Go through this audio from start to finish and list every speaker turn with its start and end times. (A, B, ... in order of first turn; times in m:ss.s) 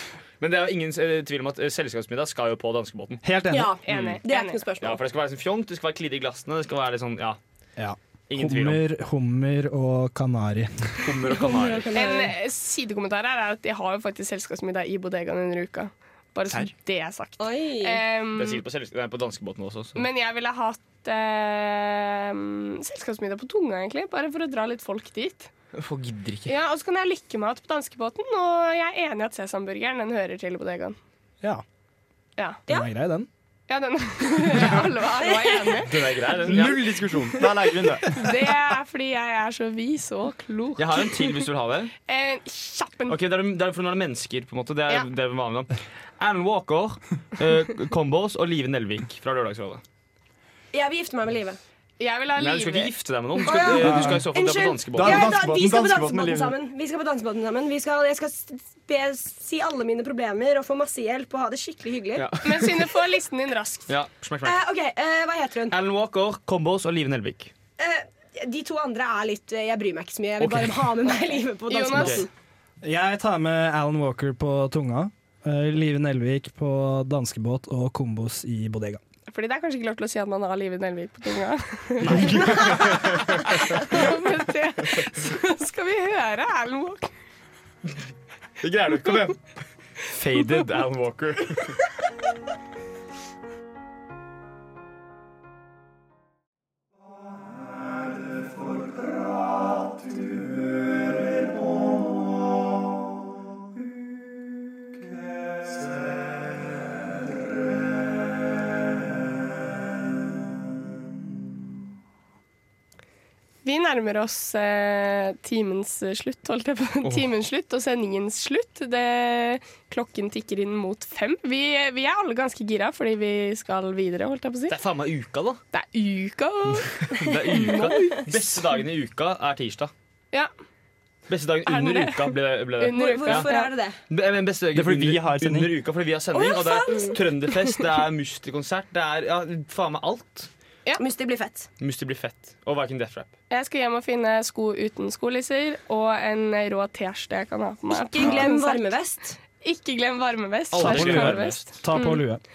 0:00.4-0:03.2 A
0:03.2-0:03.7 B
0:03.5-0:05.0 C
0:03.8-0:04.6 D
0:03.9-0:04.2 A
0:04.8-0:07.4 A
0:07.8-0:11.1 B
0:08.3-0:08.8 A
0:11.0-0:11.9 A
0:11.3-0:12.3 C
0:11.9-0:18.6 D
0:17.4-0:18.0 C
0:18.3-0:20.0 A
0:20.0-0:25.5 D
0:25.7-0:26.5 A
0:26.5-0:31.0 D
0:32.4-0:32.6 D
0:32.7-0:33.3 B
0:33.7-0:35.9 D
0:35.2-0:35.8 C
0:35.8-0:36.8 A
0:36.4-0:38.2 E
0:38.1-0:41.4 D
0:40.8-0:41.9 A
0:42.1-0:43.2 D
0:43.1-0:49.8 A
0:50.7-0:51.6 C
0:52.0-0:52.9 D
0:52.3-0:55.3 A
0:53.4-1:02.3 C
0:53.7-0:54.2 B
0:54.9-0:56.6 E
1:02.2-1:02.9 A
1:02.4-1:03.9 D
1:03.9-1:04.6 A
1:04.4-1:05.8 C
1:05.7-1:07.5 A
1:07.8-1:12.3 C
1:10.4-1:11.1 A
1:11.7-1:12.3 D
1:11.9-1:12.2 A
1:12.8-1:19.0 B
1:19.3-1:27.1 D
1:22.0-1:23.8 A
1:28.6-1:29.5 A
1:30.1-1:31.8 A
1:53.6-2:04.8 D
2:04.7-2:05.6 A
2:05.7-2:07.0 D
2:06.8-2:09.9 A
2:07.5-2:08.2 C
2:07.5-2:08.1 D
2:11.3-2:13.5 A
2:11.6-2:13.7 D
2:12.9-2:14.0 C
2:14.1-2:20.5 A
2:14.7-2:15.7 E
2:16.3-2:17.2 C
2:21.0-2:21.7 C
2:21.8-2:23.3 A
2:23.5-2:28.9 D
2:27.9-2:29.4 C
2:29.6-2:32.2 D
2:30.7-2:31.8 A
2:30.7-2:32.4 B